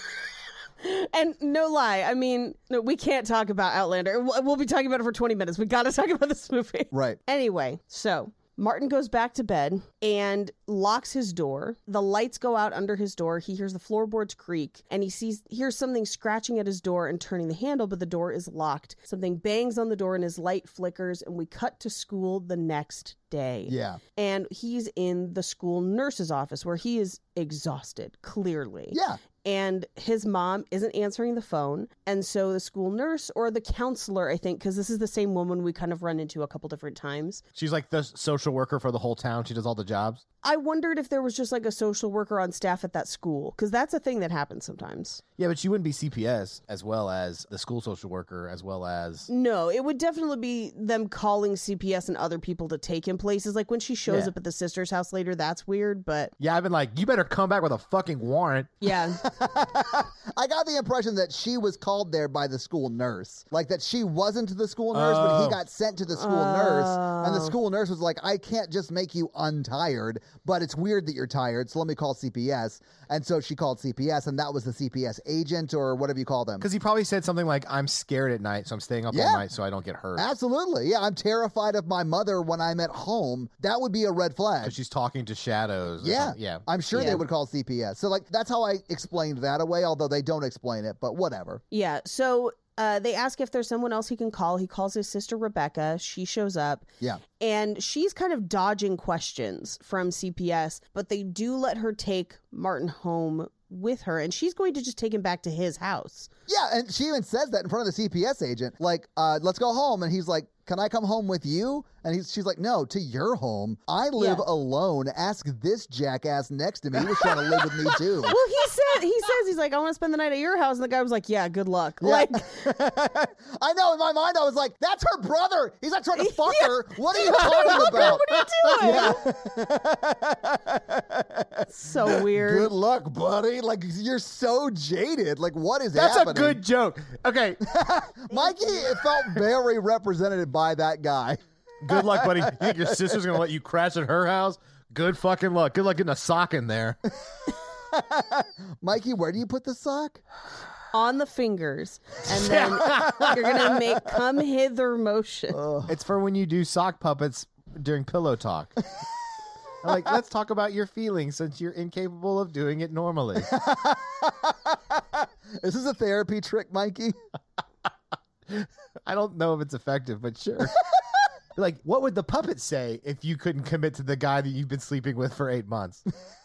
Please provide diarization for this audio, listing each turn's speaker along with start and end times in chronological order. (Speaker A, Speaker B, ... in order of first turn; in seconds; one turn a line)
Speaker A: 0.8-37.4
Speaker B: 6.9-7.2
Speaker B: 23.7-24.0
Speaker B: 28.9-29.2
Speaker C: 37.5-40.2
Speaker A: 40.4-45.2
Speaker C: 45.4-49.3
Speaker A: 49.3-56.3
Speaker C: 54.1-54.3
Speaker C: 56.4-58.8
Speaker A: 58.8-59.2
Speaker B: 59.2-76.7
Speaker C: 64.9-65.6
Speaker A: 66.2-67.5
Speaker C: 76.6-80.3
Speaker B: 79.1-79.4
Speaker B: 80.2-84.8
Speaker C: 84.6-87.2
Speaker B: 86.0-91.6
Speaker A: 87.0-87.2
Speaker A: 91.7-96.9
Speaker A: 97.4-106.3
Speaker B: 106.5-118.4
Speaker A: 114.2-114.4
Speaker A: 117.2-122.7
Speaker B: 122.0-128.3
Speaker A: 126.2-129.2
Speaker C: 127.4-129.1
Speaker B: 128.8-136.6
Speaker A: 131.7-132.7
Speaker C: 135.9-137.6
Speaker B: 137.6-141.4
Speaker A: 138.3-138.6
Speaker C: 141.8-147.0
Speaker B: 141.9-142.7
Speaker B: 147.9-150.2
Speaker A: 150.9-155.6
Speaker C: 152.3-153.9
Speaker B: 155.5-155.9
Speaker C: 155.9-158.7
Speaker C: 159.8-163.5
Speaker B: 163.5-165.0
Speaker B: 165.6-167.2
Speaker C: 168.5-170.8
Speaker C: 171.6-176.0